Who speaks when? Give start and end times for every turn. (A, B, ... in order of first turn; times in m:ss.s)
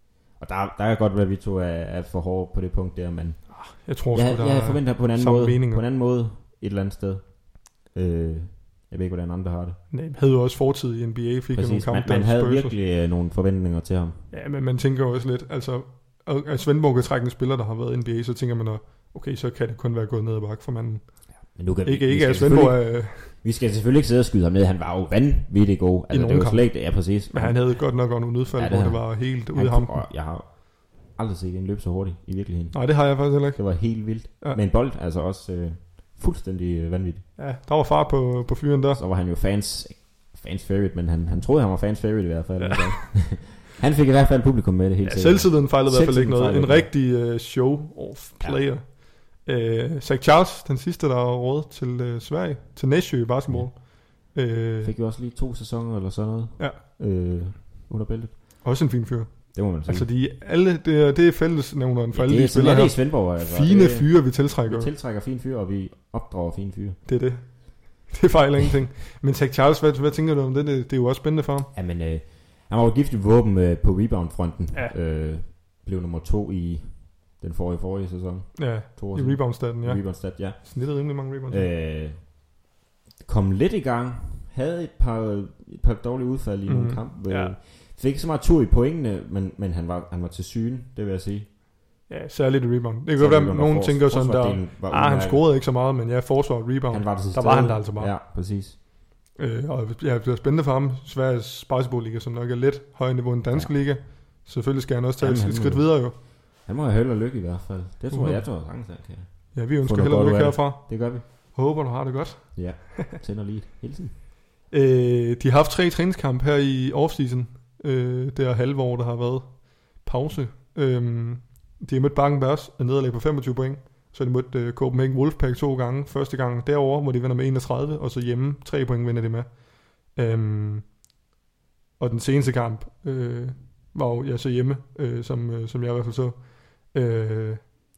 0:00.4-0:09.8 A
0:03.5-0:05.8 B
0:09.9-0:12.7 B
0:11.5-0:14.3 A
0:14.3-0:23.3 B
0:21.3-0:37.3 A
0:26.1-0:30.0 B
0:32.7-0:34.6 B
0:37.4-0:39.0 B
0:38.9-0:46.9 A
0:45.0-0:54.9 B
0:53.5-0:53.7 A
0:54.8-0:58.6 A
0:58.6-1:04.9 B
0:59.5-1:00.1 A
1:02.1-1:07.0 A
1:07.0-1:11.7 B
1:11.7-1:22.5 A
1:18.6-1:21.7 B
1:23.2-1:31.5 A
1:26.7-1:27.6 B
1:32.1-1:38.1 B
1:33.2-1:35.5 A
1:36.9-1:38.8 A
1:39.4-1:46.2 B
1:43.5-1:43.9 A
1:45.2-1:51.2 A
1:48.1-1:48.5 B
1:49.5-1:53.1 B
1:52.5-1:54.1 A
1:54.7-2:10.9 B
2:12.0-2:17.6 B